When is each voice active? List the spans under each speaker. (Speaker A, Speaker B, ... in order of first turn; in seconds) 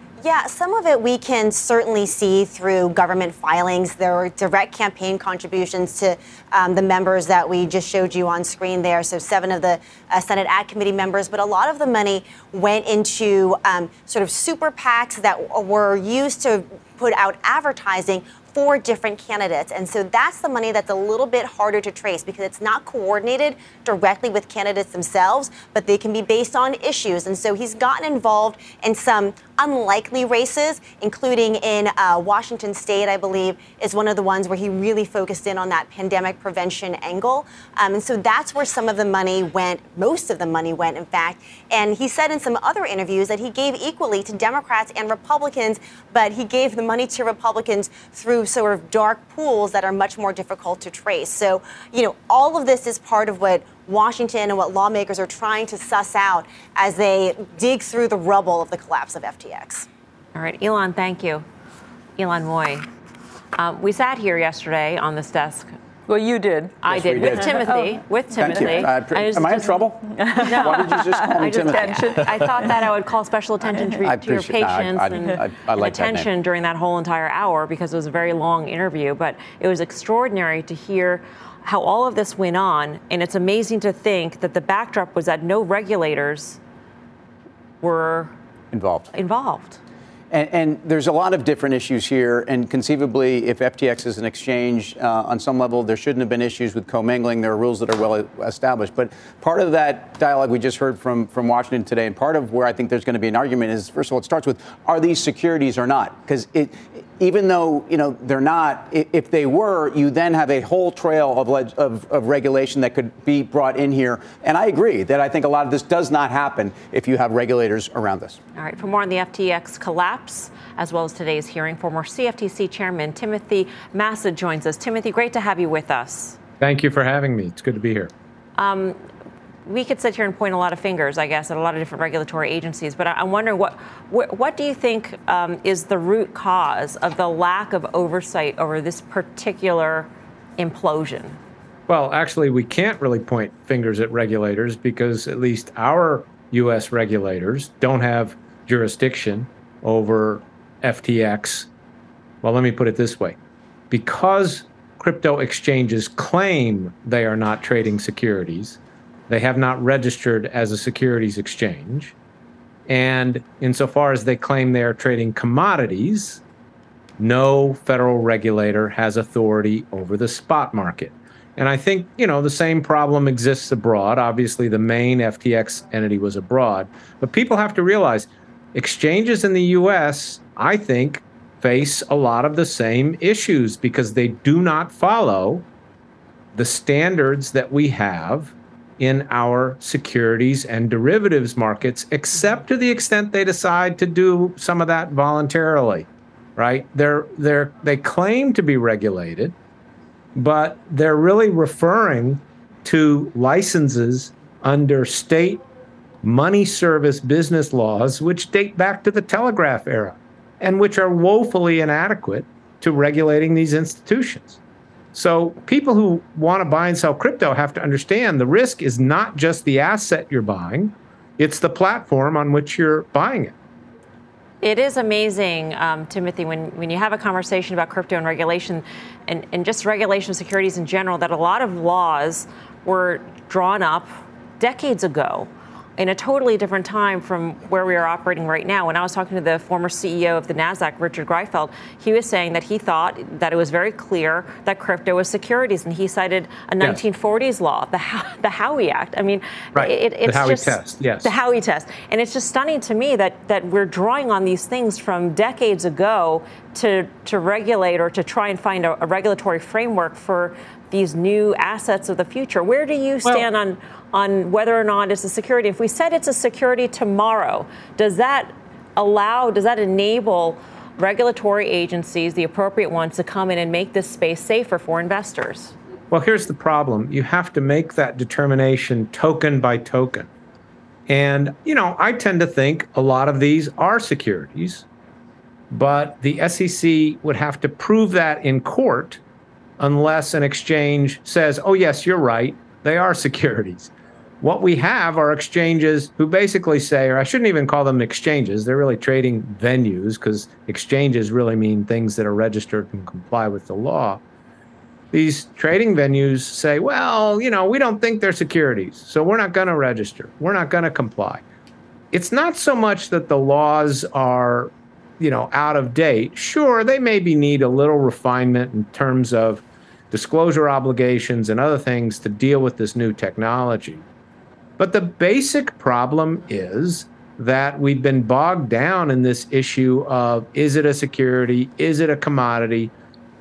Speaker A: 0.2-59.9
Speaker B: 60.4-61.5, 62.2-62.9, 63.6-65.7, 66.8-86.6, 87.8-88.3, 89.1-89.8, 118.6-126.4, 128.6-129.0, 129.7-141.4, 224.6-275.7
Speaker C: 66.1-68.8, 70.2-72.7
Speaker D: 66.8-72.7, 74.0-76.3, 88.7-89.1, 90.3-118.4
Speaker E: 126.6-128.1, 141.9-151.7, 152.4-153.4, 153.9-162.2, 162.9-166.4, 167.2-185.7, 186.5-199.6, 200.3-205.6, 206.2-214.6, 215.1-223.6, 249.8-251.3, 276.1-280.3, 281.1-284.9, 285.7-289.2, 289.8-304.2, 305.1-311.4, 312.1-324.1, 324.8-332.9